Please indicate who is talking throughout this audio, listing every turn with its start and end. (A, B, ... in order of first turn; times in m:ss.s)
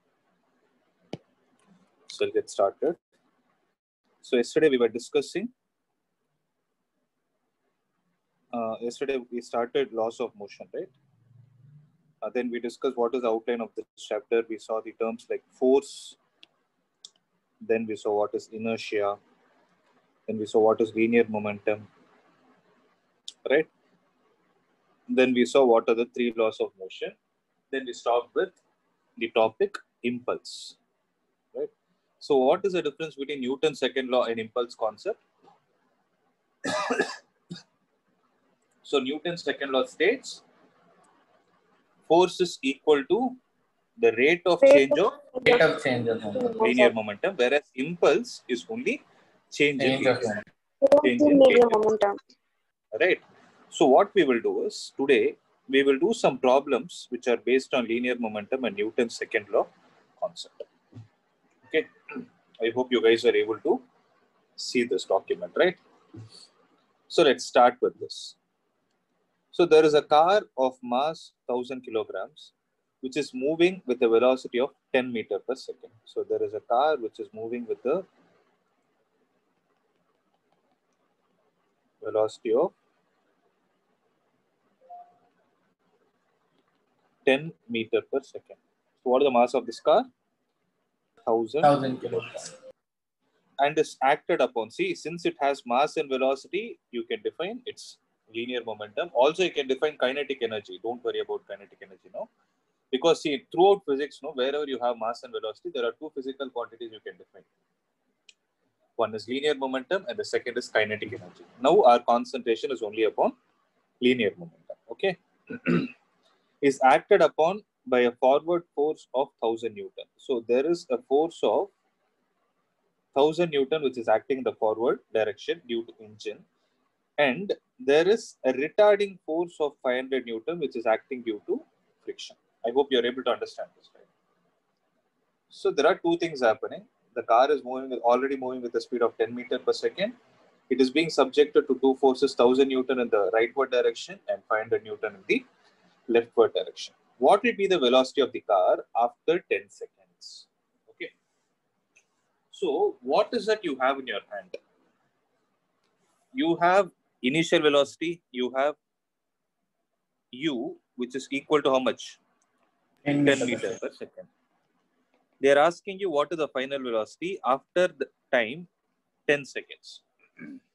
0:02.1-0:03.0 A
0:04.2-0:05.5 A
0:08.5-0:10.9 A
0:12.2-0:16.2 A
0:17.6-0:19.2 A
0:20.3-0:21.9 A
0:25.1-0:27.2 A
0:27.7-0:28.6 A
0:29.2-0:30.8 A
0:31.5-0:35.2 A
0:36.6-0:37.2 A
0:38.8-0:40.4 A
0:42.0-0:43.4 A
0:44.0-0:45.2 A
0:44.6-0:45.6 B
0:45.4-0:46.6 C
0:46.2-0:46.9 B
0:46.6-0:50.4 A
0:49.8-0:50.3 C
0:50.8-0:52.2 B
0:51.0-0:51.8 A
0:52.9-1:00.7 A
1:01.7-1:03.8 A
1:04.6-1:05.8 A
1:07.1-1:08.4 A
1:09.5-1:18.0 A
1:22.0-1:22.7 A
1:27.2-1:30.1 A
1:31.2-1:31.7 A
1:31.6-1:32.5 C
1:33.6-1:42.3 A
1:42.9-1:47.5 A
1:49.0-1:53.3 A
1:54.0-1:55.9 A
1:56.6-2:01.7 A
2:03.1-2:06.4 A
2:07.2-2:14.1 A
2:15.5-2:20.2 A
2:20.7-2:25.4 A
2:26.1-2:31.1 A
2:32.5-2:34.6 A
2:36.3-2:38.8 A
2:40.3-2:42.2 A
2:43.0-2:43.7 C
2:43.2-2:44.3 A
2:45.4-2:48.7 A
2:49.3-2:50.0 A